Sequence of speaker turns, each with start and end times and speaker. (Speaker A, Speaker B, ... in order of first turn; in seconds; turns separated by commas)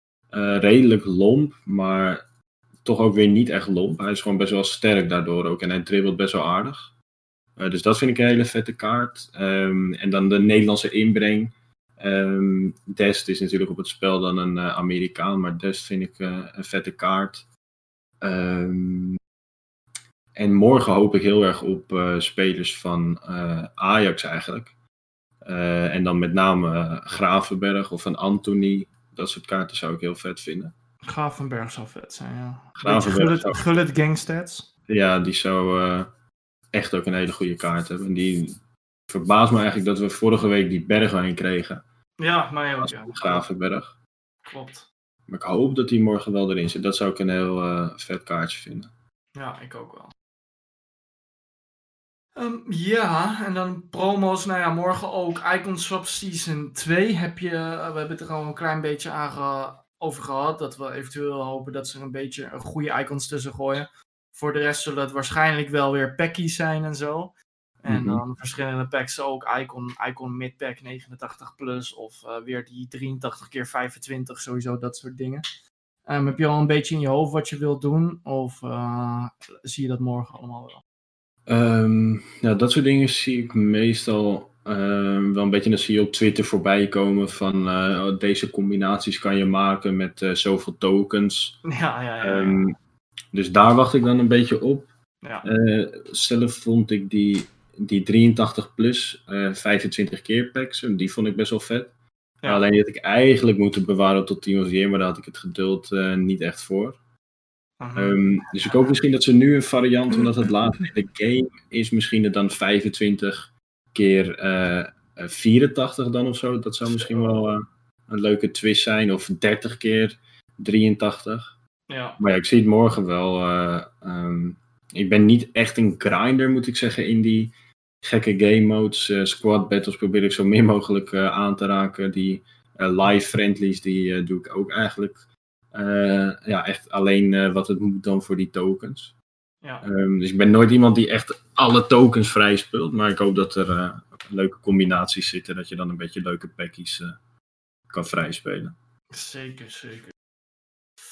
Speaker A: 0.3-2.2, Speaker A: 2.9-6.9, Speaker A: 7.6-17.4, Speaker A: 18.2-19.2, Speaker A: 20.4-24.7, Speaker A: 25.4-30.7, Speaker B: 31.0-34.7, Speaker A: 32.8-33.8, Speaker A: 34.9-36.1, Speaker A: 36.7-38.6, Speaker A: 39.1-41.8, Speaker B: 42.2-43.4, Speaker A: 42.8-43.9, Speaker B: 44.4-44.9, Speaker A: 45.3-48.9, Speaker B: 49.4-50.1, Speaker B: 52.4-75.4, Speaker A: 67.9-68.2, Speaker B: 76.1-80.8, Speaker A: 81.5-91.6, Speaker B: 91.6-92.6, Speaker A: 92.2-92.7, Speaker A: 93.3-94.9, Speaker A: 95.4-101.9, Speaker A: 102.5-107.0, Speaker B: 107.8-108.9, Speaker A: 107.9-121.5, Speaker B: 121.9-122.2, Speaker A: 122.2-135.2, Speaker A: 135.7-139.1, Speaker A: 139.8-147.2, Speaker A: 147.9-148.7, Speaker B: 149.1-150.1